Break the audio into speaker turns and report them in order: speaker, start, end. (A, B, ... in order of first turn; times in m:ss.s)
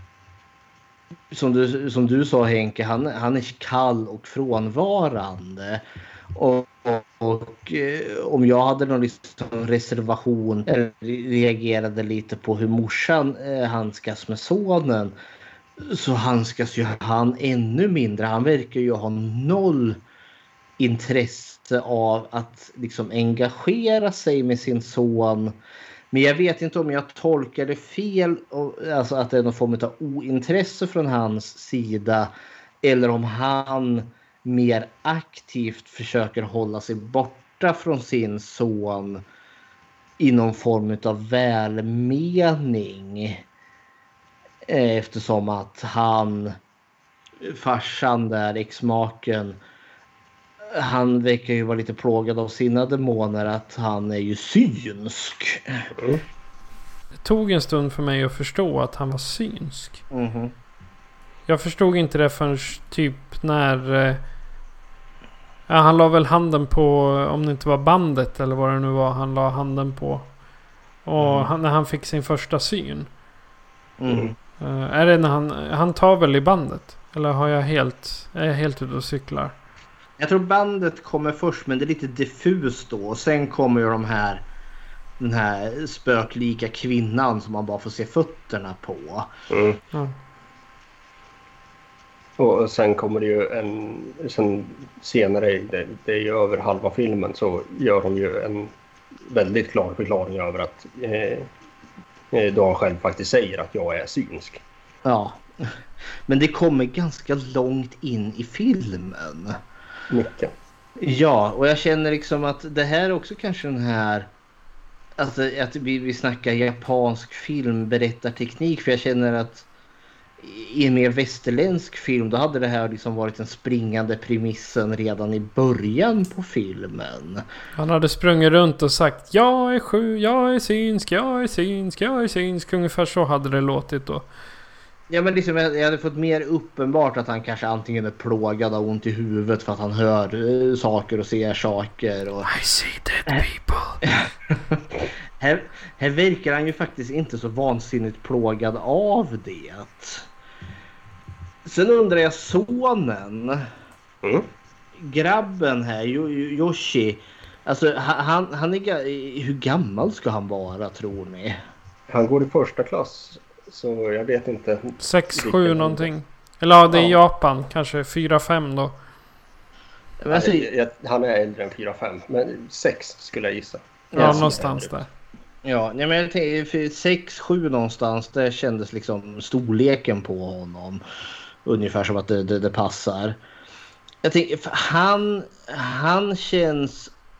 0:01.3-0:15.1 A
0:15.8-0:20.0 A
0:20.8-0:25.6 A
0:26.1-0:39.2 A
0:40.2-0:43.4 A
0:44.7-0:46.6 A
0:47.4-0:49.6 A
0:50.7-0:55.8 A
0:56.0-0:56.2 B
0:57.2-1:00.0 C
1:00.1-1:00.5 A
1:01.5-1:04.2 C
1:05.7-1:10.2 C
1:11.0-1:13.1 C
1:11.2-1:11.5 A
1:14.0-1:14.4 A
1:14.6-1:19.5 C
1:20.2-1:24.4 A
1:25.2-1:29.3 A
1:29.5-1:29.8 B
1:32.4-1:38.7 B
1:39.3-1:41.5 B
1:42.3-1:44.6 B
1:45.0-1:45.7 A
1:46.3-1:49.6 A
1:50.1-1:50.5 B
1:51.0-1:54.3 A
1:55.2-1:59.6 A
2:00.4-2:07.4 A
2:07.8-2:14.2 C
2:15.1-2:22.5 A
2:22.4-2:24.0 C
2:24.0-2:24.8 A
2:25.4-2:30.3 A
2:31.6-2:33.7 A
2:34.2-2:34.5 B
2:35.0-2:41.6 A
2:42.1-2:46.1 B
2:45.0-2:48.9 C
2:50.2-2:50.7 A
2:50.3-2:54.9 B
2:54.1-2:54.6 A
2:54.1-2:55.1 C
2:55.6-3:01.0 A
3:01.6-3:03.4 A
3:04.2-3:07.1 A